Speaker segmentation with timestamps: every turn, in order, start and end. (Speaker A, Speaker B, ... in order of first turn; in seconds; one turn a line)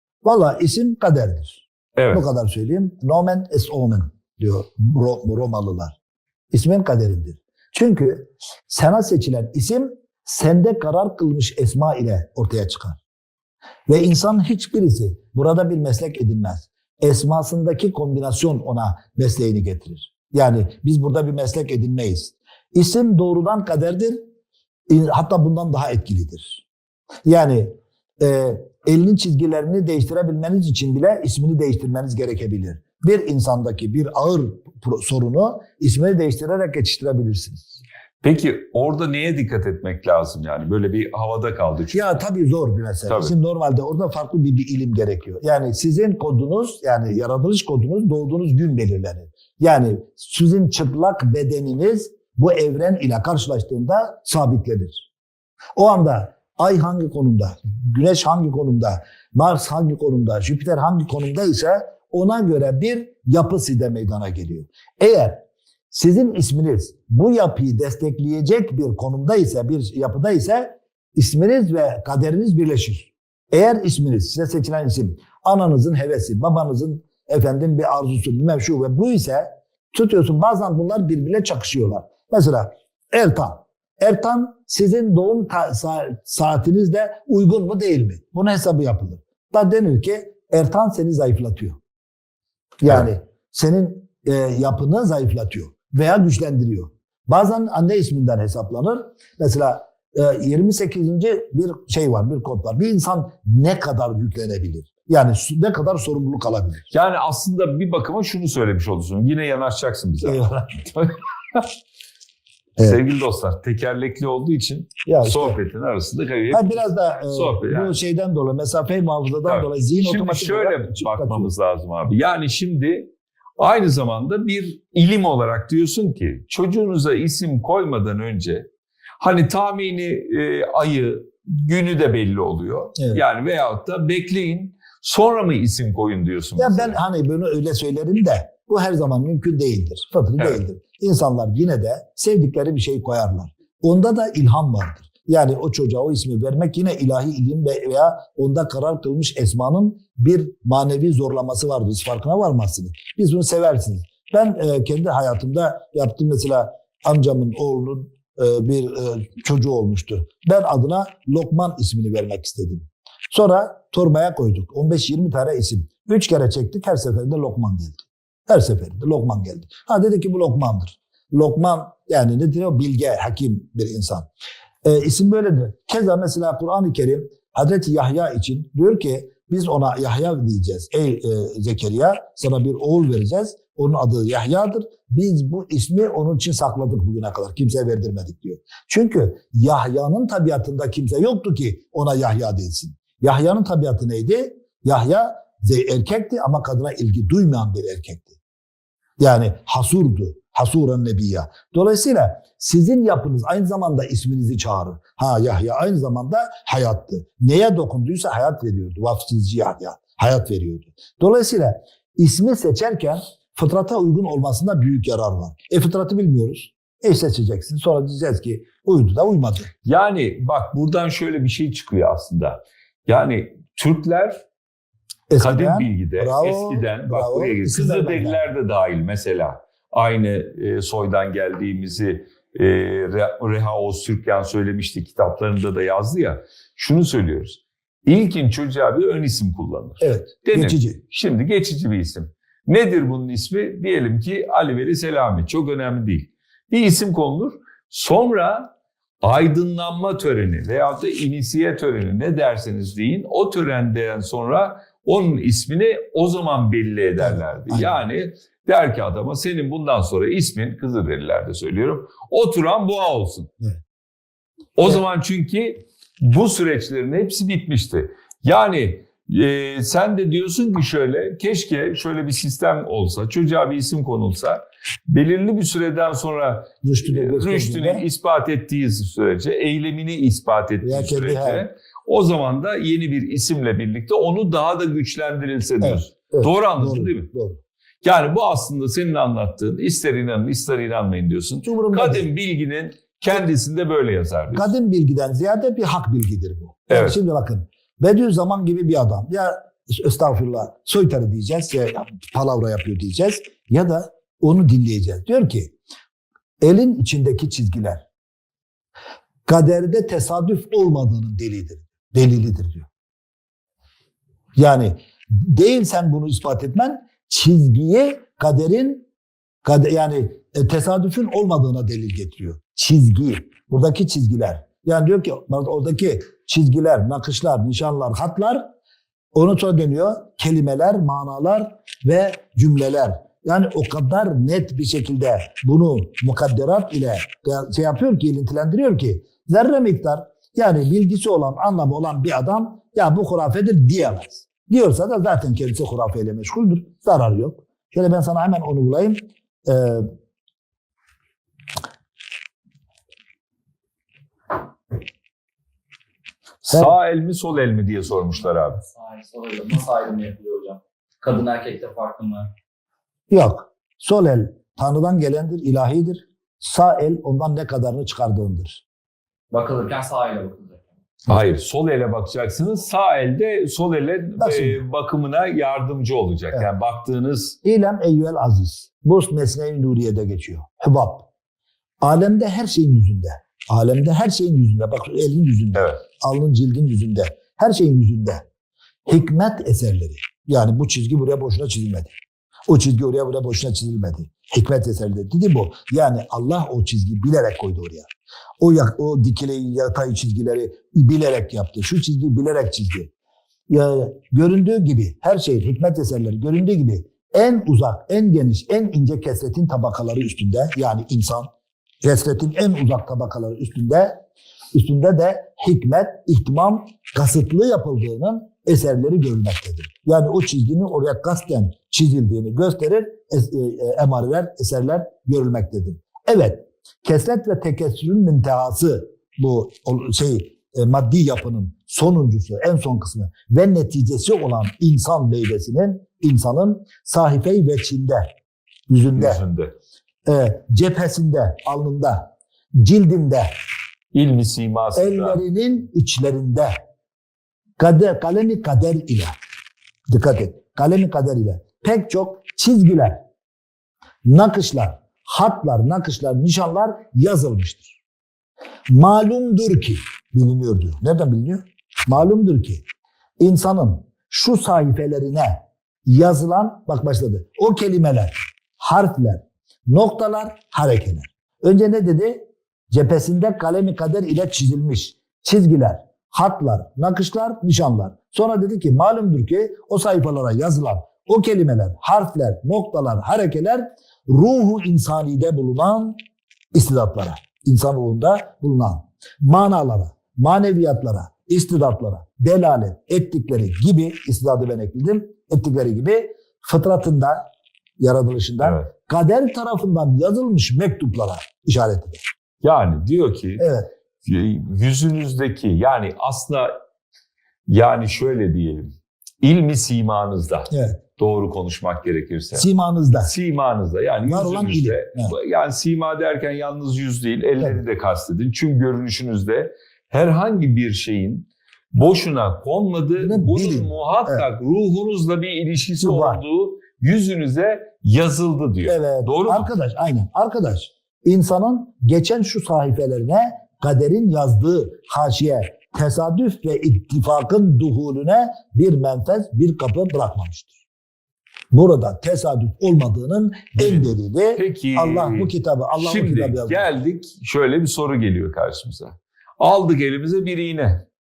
Speaker A: 0.2-6.0
Speaker B: 2.0-2.3
Speaker A: 6.5-13.0
Speaker A: 13.9-24.2
Speaker A: 24.9-26.6
Speaker A: 27.2-37.8
Speaker B: 38.2-42.2
Speaker A: 41.9-55.1
Speaker B: 43.1-43.3
Speaker A: 55.8-65.4
Speaker A: 65.9-91.8
Speaker A: 92.8-106.9
Speaker B: 106.9-111.7
Speaker A: 110.2-110.9
Speaker B: 112.8-118.0
Speaker A: 115.1-115.6
Speaker A: 116.5-121.5
Speaker B: 119.5-128.7
Speaker B: 129.2-137.0
Speaker A: 133.0-133.2
Speaker A: 136.6-174.3
Speaker A: 174.8-198.3
Speaker A: 199.2-219.7
Speaker B: 219.8-224.4
Speaker A: 225.3-228.4
Speaker B: 225.4-263.5
Speaker A: 240.0-241.0
Speaker A: 257.2-258.0
Speaker B: 264.8-287.3
Speaker A: 276.8-278.1
Speaker A: 280.8-281.7
Speaker A: 285.8-287.6
Speaker B: 288.0-294.7
Speaker A: 291.6-292.3
Speaker A: 294.5-305.7
Speaker B: 296.9-297.2
Speaker A: 306.6-308.1
Speaker A: 309.5-312.9
Speaker A: 314.6-319.1
Speaker A: 319.6-328.7
Speaker A: 329.3-350.1
Speaker B: 356.6-358.8
Speaker C: 358.8-362.5
Speaker A: 363.3-368.8
Speaker C: 369.5-370.8
Speaker B: 371.3-377.6
Speaker A: 374.4-374.8
Speaker A: 377.6-381.3
Speaker A: 382.0-388.5
Speaker B: 385.7-386.0
Speaker A: 389.1-392.1
Speaker A: 392.7-398.1
Speaker A: 398.6-403.1
Speaker A: 403.7-411.5
Speaker A: 412.0-414.2
Speaker A: 414.7-438.2
Speaker A: 438.9-439.4
Speaker B: 439.2-439.7
Speaker A: 440.3-443.5
Speaker B: 444.1-445.4
Speaker A: 445.0-446.7
Speaker A: 447.8-449.3
Speaker A: 450.1-453.2
Speaker A: 454.2-458.0
Speaker A: 458.9-462.8
Speaker A: 463.4-486.2
Speaker A: 486.7-497.4
Speaker A: 498.0-502.2
Speaker B: 498.6-498.9
Speaker B: 502.6-503.6
Speaker A: 503.6-503.9
Speaker B: 504.2-506.7
Speaker B: 507.7-529.7
Speaker A: 510.7-511.0
Speaker A: 512.5-513.3
Speaker A: 514.2-515.4
Speaker A: 523.2-524.5
Speaker A: 526.0-526.4
Speaker A: 528.9-540.8
Speaker A: 541.7-546.9
Speaker B: 543.8-551.0